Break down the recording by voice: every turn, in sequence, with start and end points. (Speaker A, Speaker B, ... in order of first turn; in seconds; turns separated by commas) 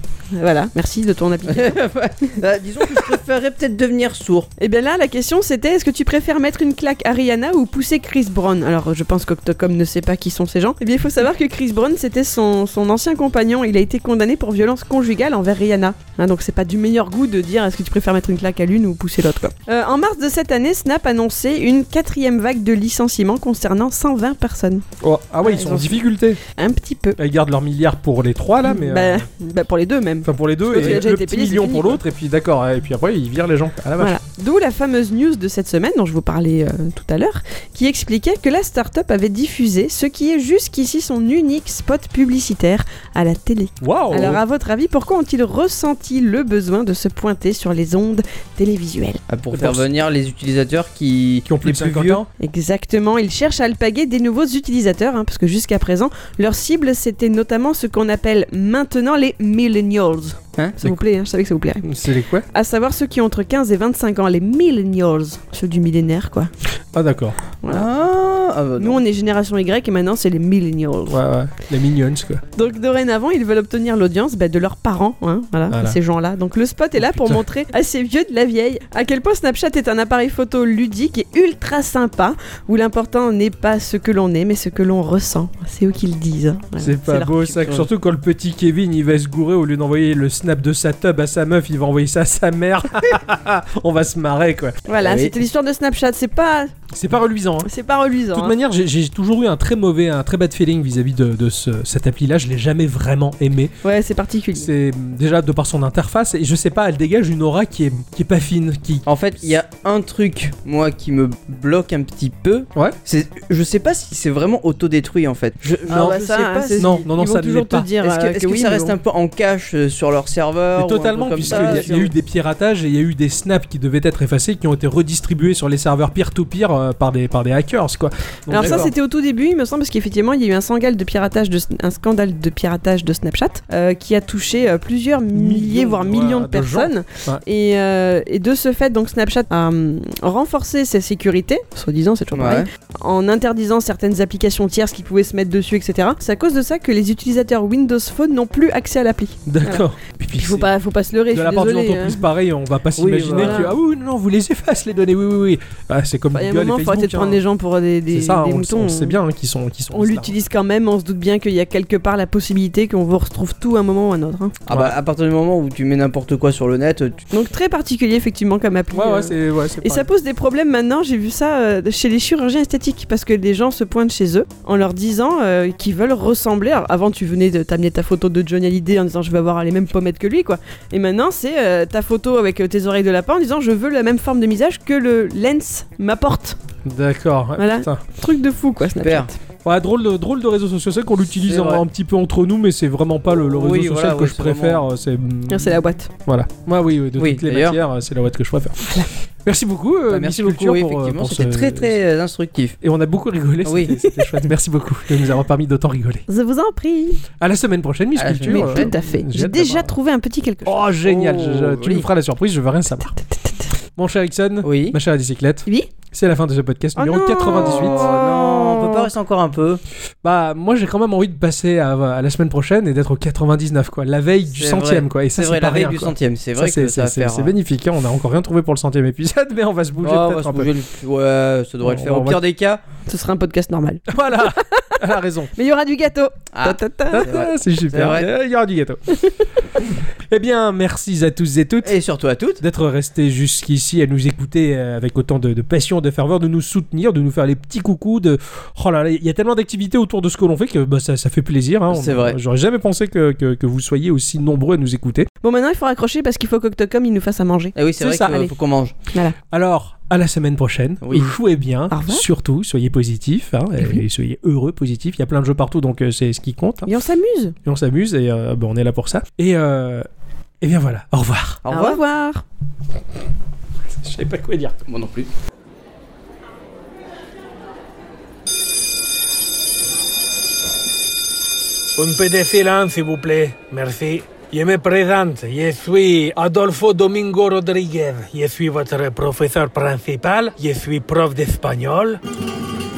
Speaker A: 0.3-2.3, Speaker B: 1.5-4.5, Speaker A: 4.6-24.9, Speaker C: 25.0-26.4, Speaker A: 25.4-27.2, Speaker C: 27.2-29.3, Speaker A: 28.6-32.0, Speaker C: 30.2-34.2, Speaker A: 34.0-49.2, Speaker C: 43.8-44.4, Speaker B: 49.3-52.2, Speaker C: 49.5-49.9, Speaker C: 51.5-52.3, Speaker A: 52.4-61.9, Speaker C: 61.8-62.5, Speaker A: 62.5-66.5, Speaker C: 66.9-67.4, Speaker B: 67.7-69.0, Speaker A: 68.8-71.2, Speaker C: 71.1-72.4, Speaker A: 72.6-87.6, Speaker C: 75.7-76.0, Speaker C: 77.0-77.4, Speaker C: 86.8-94.8, Speaker A: 94.9-96.7, Speaker B: 95.0-95.3, Speaker C: 96.9-97.7, Speaker A: 97.6-98.5, Speaker C: 98.3-103.8, Speaker A: 103.8-104.7, Speaker C: 104.5-109.1, Speaker B: 109.1-117.0, Speaker C: 115.7-116.2, Speaker A: 115.9-119.0, Speaker C: 116.7-117.9, Speaker B: 118.0-122.1, Speaker C: 120.8-128.9, Speaker A: 121.5-121.8, Speaker A: 128.5-152.3, Speaker B: 128.6-128.9, Speaker C: 135.3-137.4, Speaker B: 142.3-142.7, Speaker C: 149.4-150.7, Speaker C: 151.3-157.4, Speaker B: 153.0-153.7, Speaker A: 153.3-153.7, Speaker A: 156.3-159.2, Speaker C: 158.1-160.4, Speaker A: 159.9-164.6, Speaker B: 164.7-167.2, Speaker C: 164.7-164.9, Speaker A: 167.3-186.6, Speaker C: 168.9-170.1, Speaker C: 186.8-188.0, Speaker A: 187.6-189.4, Speaker B: 189.0-189.3, Speaker C: 189.6-198.9, Speaker B: 191.4-191.8, Speaker B: 193.3-194.9, Speaker A: 195.5-196.1, Speaker B: 197.2-197.8, Speaker C: 199.4-202.0, Speaker B: 200.1-202.8, Speaker C: 202.8-206.2, Speaker B: 203.6-203.9, Speaker A: 206.3-207.2, Speaker C: 207.4-209.9, Speaker B: 208.2-208.9, Speaker A: 208.5-210.9, Speaker C: 210.6-213.1, Speaker B: 211.1-212.1, Speaker A: 213.1-213.7, Speaker C: 213.9-218.0, Speaker B: 214.6-215.0, Speaker A: 216.9-219.1, Speaker B: 217.5-219.8, Speaker C: 220.2-230.7, Speaker B: 224.6-227.5, Speaker B: 230.0-232.8, Speaker C: 231.8-232.4, Speaker A: 233.1-235.0, Speaker C: 234.1-235.5, Speaker A: 235.5-237.4, Speaker B: 236.5-238.3, Speaker C: 237.1-239.2, Speaker C: 240.3-242.0, Speaker B: 241.8-242.6, Speaker C: 242.6-255.3, Speaker B: 251.9-252.4, Speaker A: 255.4-257.8, Speaker B: 257.8-258.9, Speaker C: 258.0-258.5, Speaker C: 259.5-266.9, Speaker B: 261.0-261.3, Speaker A: 261.9-262.3, Speaker A: 266.9-267.6, Speaker C: 267.6-270.1, Speaker C: 270.6-271.6, Speaker B: 271.6-272.0, Speaker A: 271.7-272.4, Speaker C: 273.9-274.8, Speaker B: 274.9-275.3, Speaker D: 281.9-292.2